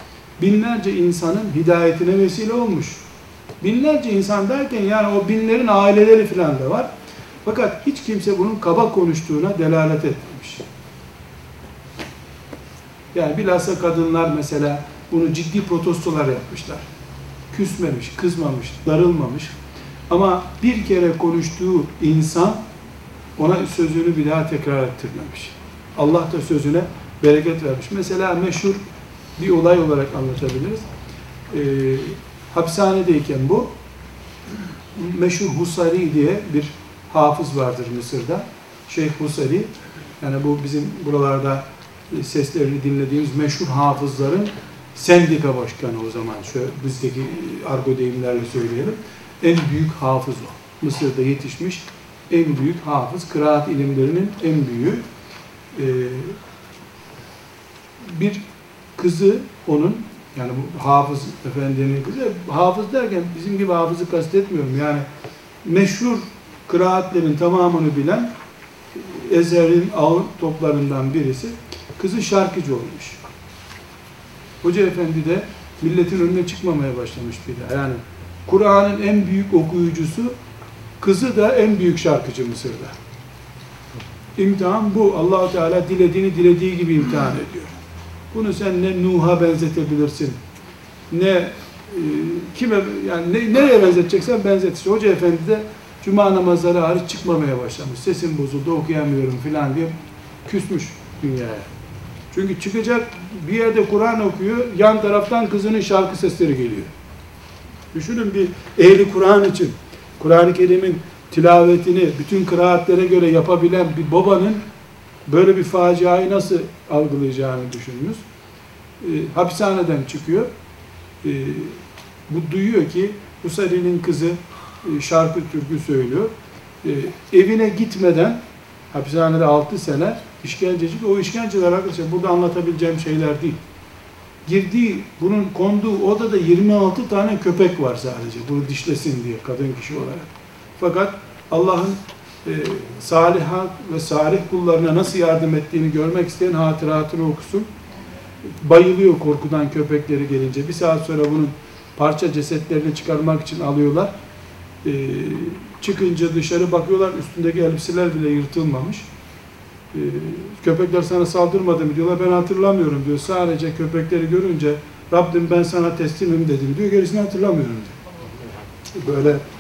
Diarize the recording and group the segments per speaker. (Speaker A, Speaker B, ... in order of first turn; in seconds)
Speaker A: 0.4-3.0, 3.6-6.9, 7.5-10.6, 13.1-16.9, 17.5-19.5, 20.1-22.6, 23.4-28.8, 29.4-30.9, 31.5-33.7, 35.0-39.7, 40.2-55.0, 55.7-56.4, 58.0-58.4, 59.0-65.0, 65.6-68.3, 69.0-73.2, 74.6-80.3, 81.0-83.0, 84.4-87.8, 88.3-90.4, 91.1-99.9, 100.5-101.7, 102.3-106.9, 107.9-114.6, 115.3-118.2, 119.0-120.5, 121.2-128.4, 128.9-133.6, 134.4-147.7, 148.6-154.1, 154.8-159.1, 159.9-168.0, 168.9-169.4